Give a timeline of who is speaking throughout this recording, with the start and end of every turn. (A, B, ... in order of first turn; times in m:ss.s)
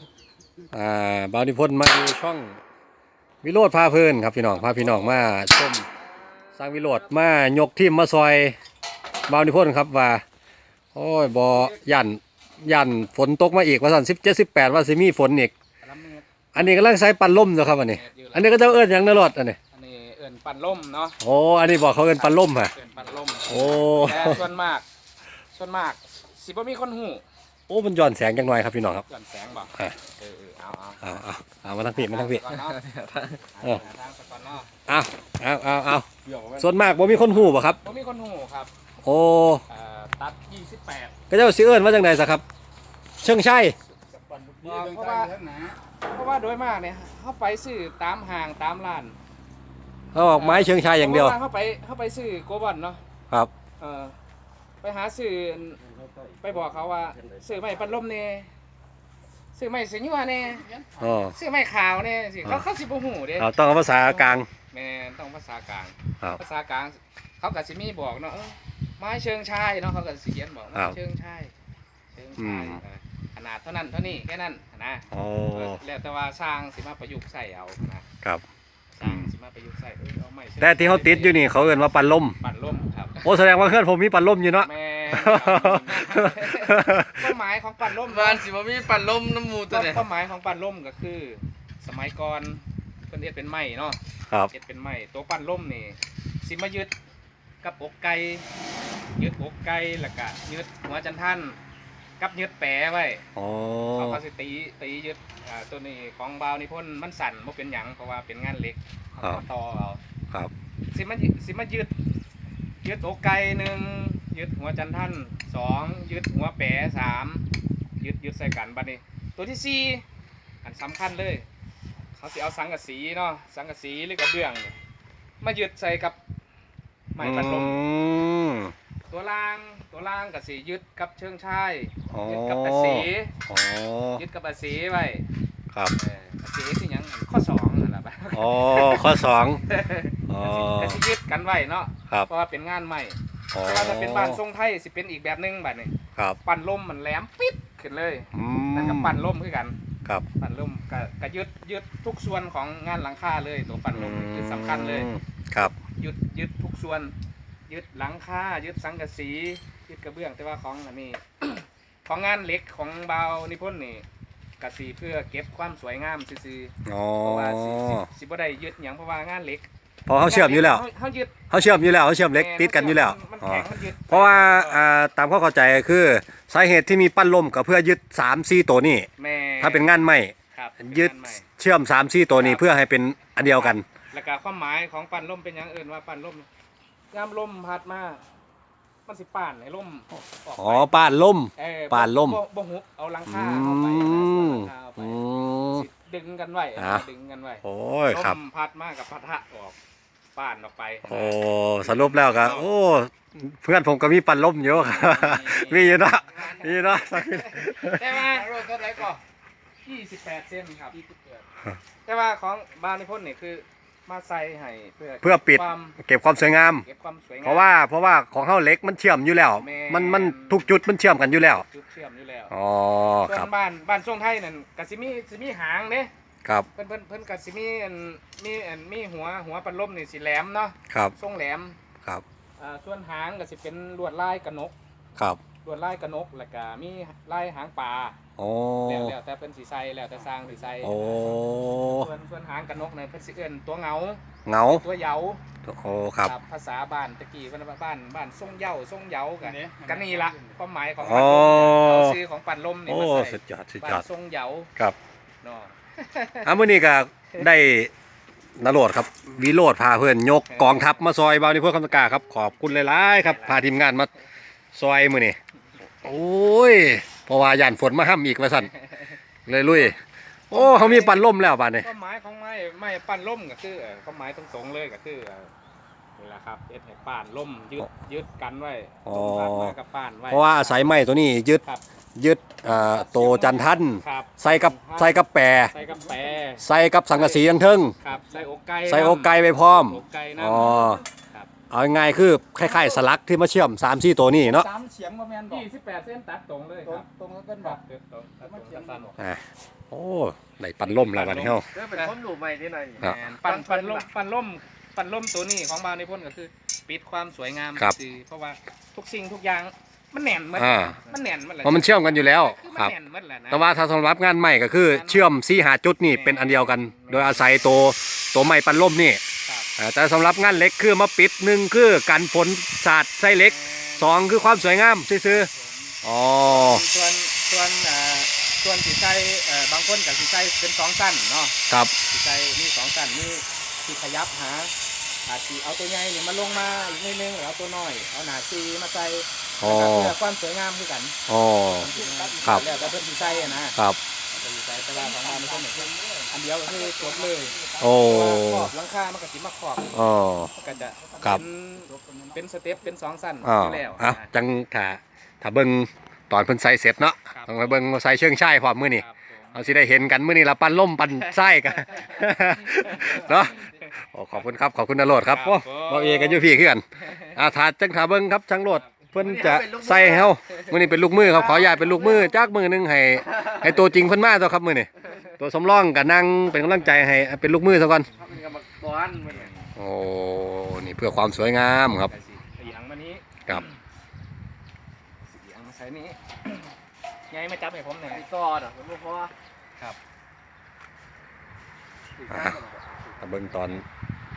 0:00.7-0:02.6 A
0:03.4-0:05.9 A
0:06.6-0:08.6 A
0:09.3-0:10.2 A
0:10.9-0:15.5 A
0:15.8-0:16.3 B
0:16.5-0:19.6 A
0:17.9-0:18.6 B
0:19.7-0:21.2 B
0:21.2-0:22.7 A
0:22.1-0:24.8 B
0:23.5-0:24.4 A
0:25.5-0:27.2 B
0:27.7-0:29.0 A
0:29.1-0:31.0 B
0:31.0-0:32.4 A
0:31.9-0:32.8 B
0:32.7-0:33.4 C
0:33.4-0:34.7 B
0:34.9-0:37.8 A
0:37.8-0:38.7 B
0:39.0-0:39.6 A
0:39.7-0:41.2 B
0:41.3-0:42.4 A
0:43.2-0:43.7 A
0:44.3-0:45.8 D
0:44.6-0:45.4 B
0:46.1-0:49.2 B
0:50.1-0:51.4 A
0:50.3-0:53.0 B
0:53.8-0:54.2 B
0:54.8-0:55.8 B
0:56.4-0:58.5 B
0:59.5-1:00.8 B
1:01.0-1:01.3 A
1:01.3-1:11.5 B
1:03.4-1:04.5 A
1:12.1-1:18.0 B
1:12.4-1:12.8 A
1:15.1-1:15.8 A
1:18.9-1:21.5 B
1:19.0-1:19.3 A
1:20.6-1:22.4 A
1:22.4-1:23.3 B
1:23.2-1:27.3 A
1:24.6-1:28.5 B
1:28.0-1:30.0 C
1:29.7-1:36.9 B
1:37.6-1:38.4 B
1:39.2-1:41.6 B
1:42.2-1:43.2 B
1:43.4-1:44.2 A
1:44.0-1:50.0 B
1:50.9-1:51.9 B
1:52.8-1:57.4 B
1:58.0-2:00.0 B
2:00.6-2:01.4 B
2:02.1-2:04.8 B
2:05.4-2:06.2 B
2:07.1-2:07.8 B
2:07.2-2:08.7 A
2:09.1-2:13.3 B
2:12.1-2:14.2 A
2:14.2-2:15.3 B
2:16.0-2:25.9 B
2:18.3-2:19.6 A
2:20.3-2:21.0 A
2:23.5-2:24.4 A
2:26.4-2:29.8 B
2:28.3-2:29.1 A
2:30.4-2:35.1 B
2:33.9-2:35.7 A
2:35.6-2:37.1 B
2:37.7-2:44.0 B
2:44.6-2:51.5 B
2:46.8-2:48.1 A
2:50.1-2:50.8 A
2:51.5-2:59.1 A
2:52.3-2:54.8 B
2:59.2-2:59.9 B
2:59.6-3:03.8 A
3:00.5-3:01.4 B
3:02.3-3:02.7 B
3:03.4-3:06.5 B
3:07.1-3:08.2 B
3:09.0-3:11.0 B
3:10.6-3:12.4 A
3:11.6-3:15.2 B
3:13.2-3:15.8 A
3:15.7-3:19.8 B
3:16.8-3:17.0 A
3:17.6-3:18.4 A
3:20.3-3:22.7 B
3:21.0-3:28.2 A
3:24.7-3:28.6 B
3:28.4-3:29.2 C
3:29.8-3:31.0 B
3:32.0-3:36.0 B
3:35.2-3:36.8 A
3:36.6-3:37.8 B
3:37.4-3:41.6 A
3:39.6-3:40.7 B
3:41.5-3:42.5 B
3:42.5-3:43.5 A
3:43.2-3:46.1 B
3:46.7-3:51.8 B
3:52.6-3:54.7 B
3:55.6-3:58.2 B
3:58.4-3:59.1 A
3:58.8-4:01.2 B
4:00.8-4:02.1 A
4:01.8-4:04.2 B
4:04.4-4:04.8 A
4:04.8-4:05.4 B
4:05.6-4:06.3 A
4:06.2-4:14.7 B
4:09.4-4:10.5 D
4:11.0-4:12.2 A
4:12.9-4:14.0 A
4:15.4-4:16.6 B
4:16.4-4:17.9 A
4:18.6-4:24.1 A
4:20.5-4:21.0 B
4:23.2-4:23.6 B
4:24.7-4:25.4 A
4:26.0-4:28.7 A
4:28.6-4:29.2 B
4:29.4-4:30.0 A
4:30.5-4:31.9 A
4:30.5-4:31.3 B
4:31.8-4:35.5 B
4:36.2-4:40.9 B
4:39.0-4:39.7 A
4:40.3-4:41.6 A
4:42.2-4:45.7 A
4:42.7-4:47.4 B
4:45.8-4:46.3 D
4:46.6-4:47.9 A
4:48.0-4:51.5 B
4:48.8-4:51.0 A
4:51.7-4:54.7 A
4:52.6-4:52.9 D
4:54.4-4:55.6 D
4:55.5-4:57.1 B
4:56.8-4:57.8 D
4:57.6-4:59.2 B
4:58.4-4:59.0 D
4:59.2-5:01.6 A
5:00.9-5:02.2 B
5:01.7-5:04.0 C
5:03.0-5:03.2 A
5:03.0-5:13.7 B
5:10.5-5:11.0 A
5:11.6-5:12.9 A
5:13.5-5:19.2 A
5:14.9-5:15.3 B
5:16.0-5:17.8 B
5:19.4-5:19.7 B
5:19.8-5:25.5 A
5:23.3-5:24.4 B
5:25.2-5:34.7 B
5:26.0-5:26.8 A
5:31.7-5:31.9 A
5:35.2-5:41.1 B
5:39.6-5:40.2 A
5:41.3-5:41.9 A
5:41.8-5:43.6 D
5:41.8-5:43.8 B
5:44.3-5:50.1 B
5:44.8-5:48.1 D
5:47.8-5:48.7 A
5:49.9-5:50.5 A
5:50.5-5:52.4 D
5:50.6-5:54.3 B
5:53.4-6:18.1 A
5:57.3-5:57.8 B
5:58.9-5:59.8 B
6:01.2-6:03.9 B
6:05.3-6:07.4 B
6:08.7-6:09.1 B
6:09.1-6:10.4 C
6:11.2-6:12.2 B
6:11.4-6:12.0 C
6:13.4-6:13.6 C
6:18.2-6:19.5 C
6:19.3-6:19.7 B
6:19.8-6:22.1 A
6:22.0-6:23.8 B
6:25.2-6:26.7 B
6:27.3-6:28.2 B
6:28.1-6:29.3 C
6:32.2-6:33.8 C
6:32.3-6:32.6 A
6:33.2-6:33.8 A